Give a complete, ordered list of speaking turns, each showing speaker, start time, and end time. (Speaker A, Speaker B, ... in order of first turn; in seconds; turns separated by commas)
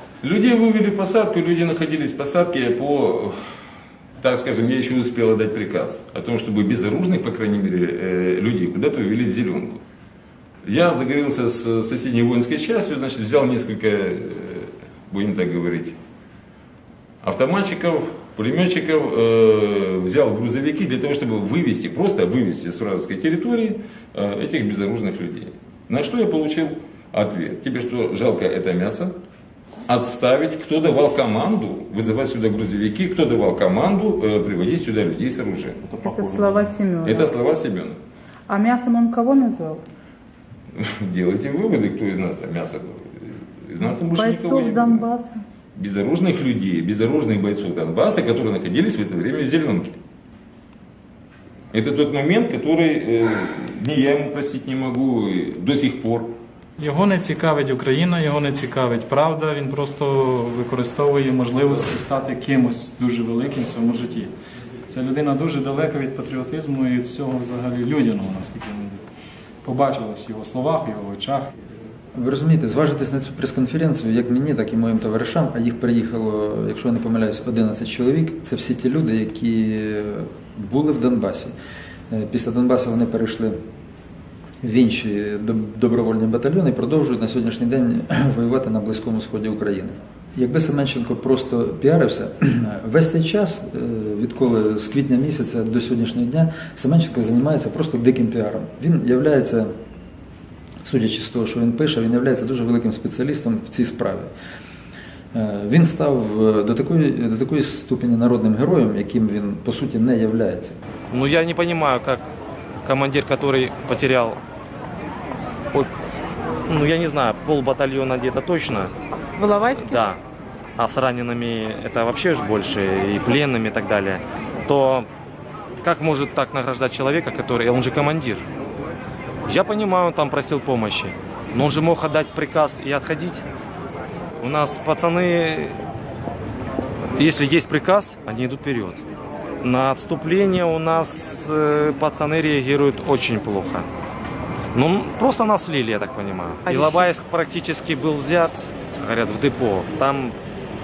Speaker A: 0.2-3.4, Speaker A: 4.2-9.8, Speaker A: 10.6-16.0, Speaker A: 17.2-29.1, Speaker A: 29.9-36.5, Speaker B: 35.9-37.3, Speaker A: 37.0-38.0, Speaker B: 38.5-39.8, Speaker A: 40.7-45.0, Speaker B: 44.1-45.4, Speaker A: 45.7-50.0, Speaker A: 51.7-56.3, Speaker C: 56.8-64.3, Speaker C: 64.9-69.0, Speaker C: 69.6-71.5, Speaker D: 72.1-81.5, Speaker D: 82.1-83.6, Speaker D: 84.6-99.7, Speaker D: 100.8-104.3, Speaker D: 105.3-110.8, Speaker E: 111.1-112.3, Speaker E: 112.8-114.4, Speaker E: 116.7-118.9, Speaker B: 119.4-120.1, Speaker E: 119.8-120.2, Speaker E: 120.8-125.1, Speaker E: 125.8-128.4, Speaker E: 129.5-133.4, Speaker E: 134.4-135.8, Speaker E: 137.1-139.0, Speaker E: 139.6-143.9, Speaker E: 144.7-150.3, Speaker B: 146.6-147.1